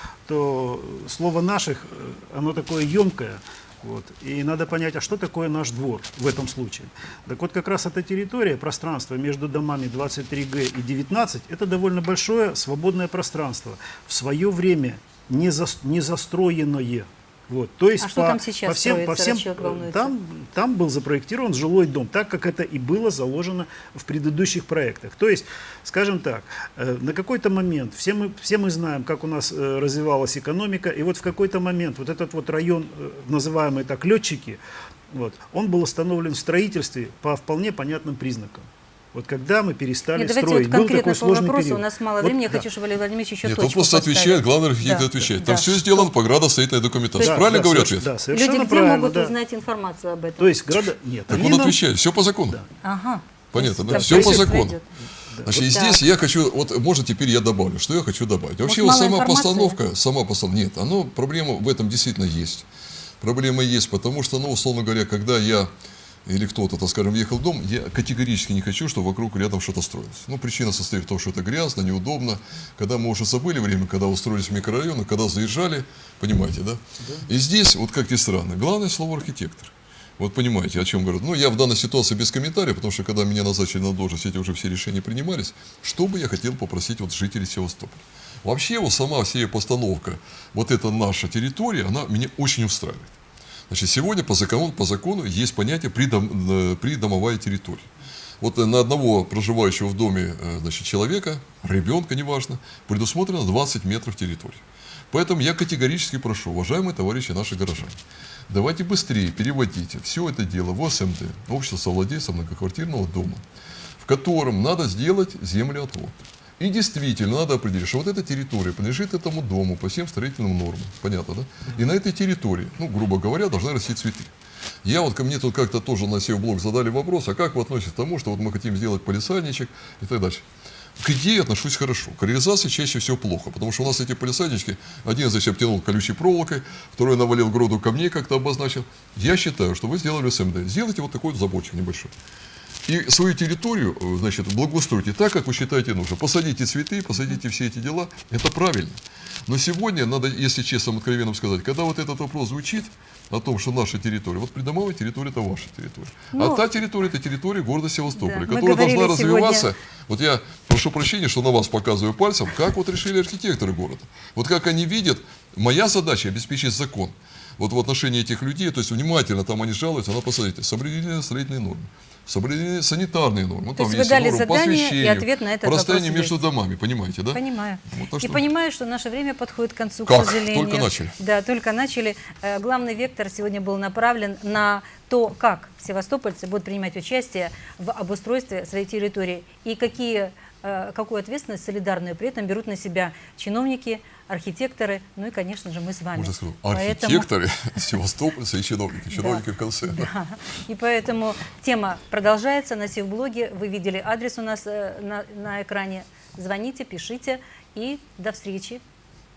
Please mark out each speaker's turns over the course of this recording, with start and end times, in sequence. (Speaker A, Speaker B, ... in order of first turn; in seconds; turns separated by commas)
Speaker A: 0.3-34.6, Speaker B: 18.0-20.1, Speaker A: 35.1-42.6, Speaker B: 40.1-46.1, Speaker C: 43.4-48.1, Speaker B: 47.1-47.4, Speaker A: 47.2-49.3, Speaker B: 48.3-50.6, Speaker A: 50.4-51.8, Speaker C: 51.3-52.6, Speaker B: 52.8-54.9, Speaker C: 53.5-54.8, Speaker A: 53.9-54.6, Speaker A: 55.3-55.6, Speaker C: 55.4-62.6, Speaker B: 55.5-56.0, Speaker B: 58.6-59.8, Speaker C: 63.2-65.7, Speaker C: 66.2-93.2, Speaker A: 77.0-77.3, Speaker C: 93.7-108.0, Speaker C: 108.5-113.4, Speaker C: 114.0-124.3, Speaker C: 124.8-130.4, Speaker C: 131.0-142.1, Speaker C: 142.8-178.4, Speaker B: 156.3-156.6, Speaker B: 158.1-159.7, Speaker B: 173.8-176.4, Speaker B: 177.3-197.3, Speaker C: 180.1-181.2, Speaker C: 196.1-200.1, Speaker B: 199.1-208.8